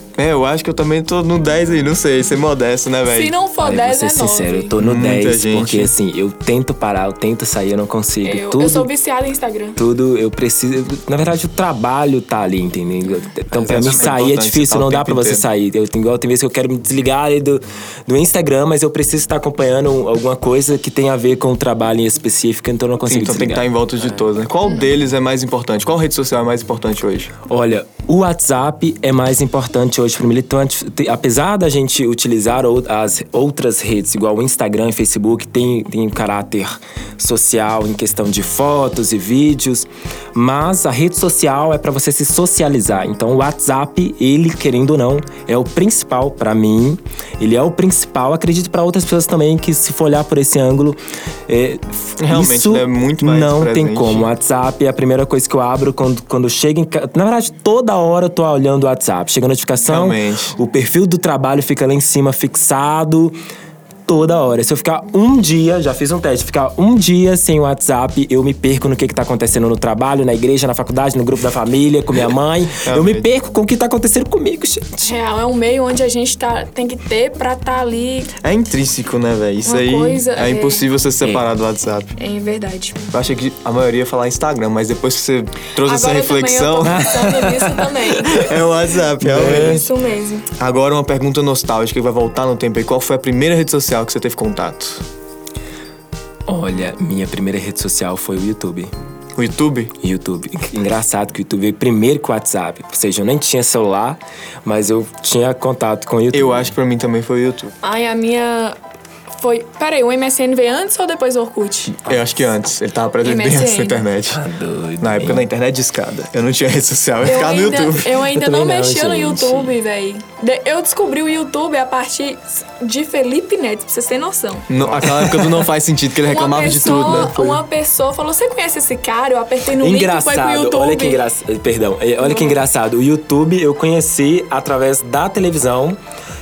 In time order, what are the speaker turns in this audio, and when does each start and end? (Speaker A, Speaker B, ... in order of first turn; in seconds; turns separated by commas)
Speaker A: 0.2-3.3, Speaker B: 3.1-4.7, Speaker C: 3.6-8.9, Speaker A: 4.8-5.9, Speaker B: 8.2-9.8, Speaker C: 9.8-23.7, Speaker A: 13.5-15.4, Speaker A: 23.1-27.3, Speaker C: 27.5-63.4, Speaker A: 52.2-54.3, Speaker A: 59.9-60.5, Speaker C: 64.1-75.1, Speaker A: 72.8-73.3, Speaker B: 75.1-78.3, Speaker A: 78.4-82.1, Speaker B: 79.7-80.9, Speaker B: 82.2-83.0, Speaker A: 83.1-87.2, Speaker B: 85.8-88.7, Speaker C: 86.8-87.9, Speaker A: 88.2-89.9, Speaker C: 89.2-89.8, Speaker B: 89.4-90.5, Speaker A: 90.6-95.0, Speaker C: 96.5-98.9, Speaker A: 99.4-99.9, Speaker C: 100.0-106.7, Speaker A: 106.3-107.7, Speaker B: 107.8-108.8, Speaker B: 109.4-112.0, Speaker A: 112.0-114.4, Speaker B: 113.2-114.0, Speaker C: 114.3-115.4, Speaker A: 115.0-118.2, Speaker B: 117.2-124.7, Speaker C: 118.3-119.7, Speaker A: 124.7-127.6, Speaker C: 124.8-125.3, Speaker B: 126.2-131.2, Speaker C: 129.8-136.0, Speaker B: 132.2-132.6